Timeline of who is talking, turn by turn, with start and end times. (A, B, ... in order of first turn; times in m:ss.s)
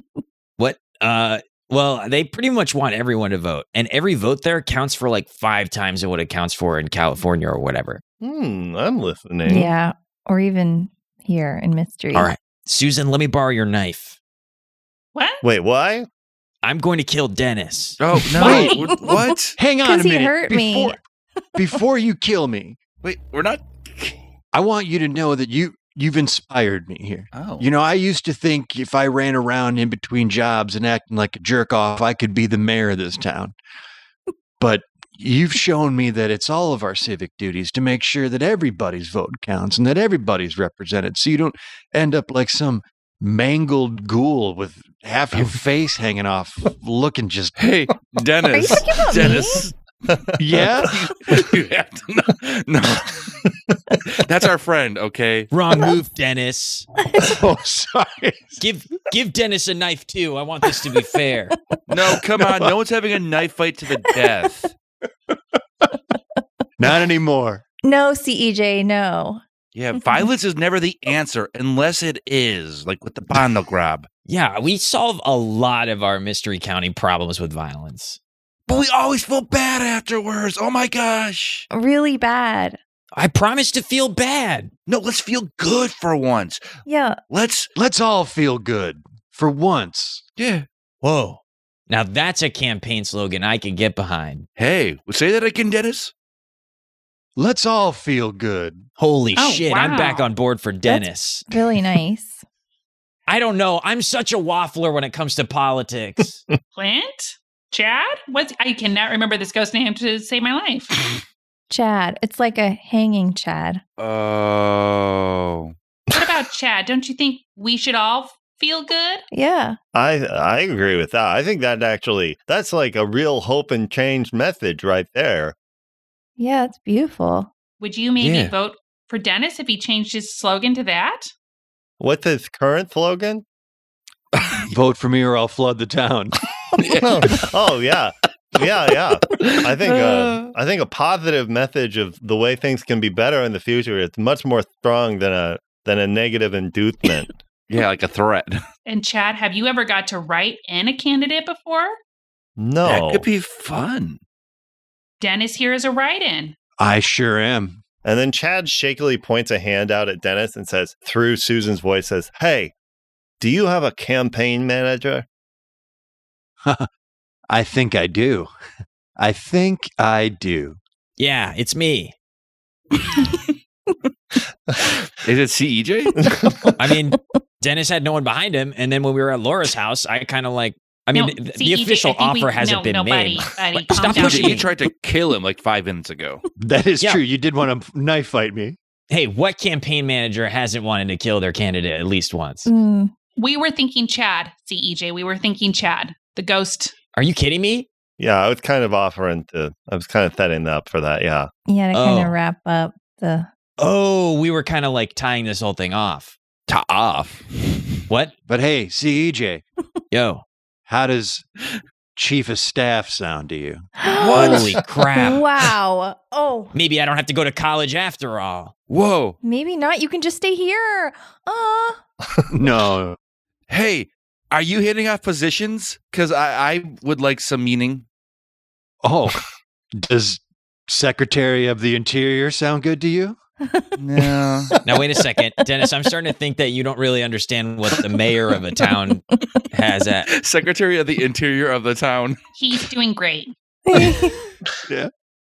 0:00.6-0:08.0 A
0:08.2-0:09.7 B
0:09.5-0:12.3 C
0:12.1-0:14.2 A
0:15.2-0:15.4 D
0:15.4-0:16.1 B
0:16.6-0:18.0 A
0:18.0-0:19.6 E
0:18.4-0:18.8 F
0:18.4-0:19.2 C
0:19.6-0:21.0 F
0:19.8-0:21.0 C
0:21.6-0:22.8 F
0:23.0-0:24.2 E
0:24.5-0:33.6 F
0:27.3-0:27.7 E
0:34.6-0:47.5 F
0:47.6-0:49.8 E
0:48.5-0:49.7 C
0:50.4-0:51.0 F
0:50.6-0:53.3 E
0:54.1-0:55.5 E
0:55.5-0:56.9 A
0:57.2-0:58.6 F
0:58.6-1:01.5 A
1:01.9-1:04.7 E
1:06.8-1:07.6 F
1:07.8-1:09.4 C
1:09.7-1:14.1 E
1:14.3-1:18.2 A
1:18.7-1:21.7 E
1:21.7-1:22.8 C
1:23.1-1:24.7 A
1:24.9-1:26.6 E
1:26.8-1:27.2 C
1:27.3-1:27.7 E
1:27.8-1:30.2 F
1:30.4-1:30.7 E
1:31.0-1:34.5 A
1:34.6-1:36.1 E
1:37.4-1:38.9 F
1:39.0-1:41.5 A
1:39.4-1:40.3 D
1:40.8-1:42.4 C
1:43.3-1:46.4 A
1:46.8-1:51.0 D
1:51.7-1:53.8 C
1:54.0-1:55.7 E
1:56.1-1:59.2 D
1:59.3-1:59.8 C
1:59.9-2:05.6 B
2:06.4-2:07.5 C
2:07.8-2:11.3 D
2:08.2-2:08.5 E
2:12.0-2:13.4 B
2:14.4-2:14.7 E
2:14.7-2:16.4 F
2:16.8-2:17.5 E
2:17.0-2:27.3 B
2:19.4-2:19.7 E
2:27.7-2:28.6 E
2:28.9-2:32.0 D
2:32.6-2:33.3 B
2:32.8-2:34.2 E
2:35.2-2:36.6 D
2:36.8-2:37.8 F
2:38.0-2:42.7 B
2:43.4-2:45.2 B
2:47.5-2:48.5 F
2:49.2-2:50.8 F
2:51.2-2:52.1 A
2:55.2-2:56.2 E
2:56.2-2:56.7 B
2:56.8-3:04.7 A
3:01.1-3:04.6 D
3:04.1-3:06.4 E
3:06.6-3:08.8 F
3:09.1-3:12.7 A
3:12.6-3:13.1 C
3:13.4-3:16.9 D
3:17.2-3:17.9 A
3:18.2-3:21.5 B
3:21.7-3:23.5 C
3:21.9-3:22.3 A
3:23.8-3:26.4 A
3:26.7-3:28.0 E
3:28.5-3:29.6 F
3:30.1-3:30.4 A
3:30.9-3:31.4 F
3:32.2-3:33.9 F
3:34.0-3:34.6 C
3:34.2-3:34.7 E
3:34.3-3:35.4 A
3:35.2-3:36.7 C
3:36.7-3:38.7 A
3:38.9-3:39.4 E
3:39.4-3:42.0 C
3:42.5-3:43.2 F
3:43.7-3:48.0 E
3:49.0-3:49.4 F
3:50.0-3:53.4 F
3:54.0-3:54.8 E
3:54.8-4:00.3 A
4:00.3-4:02.4 E
4:02.6-4:03.5 D
4:03.9-4:04.5 C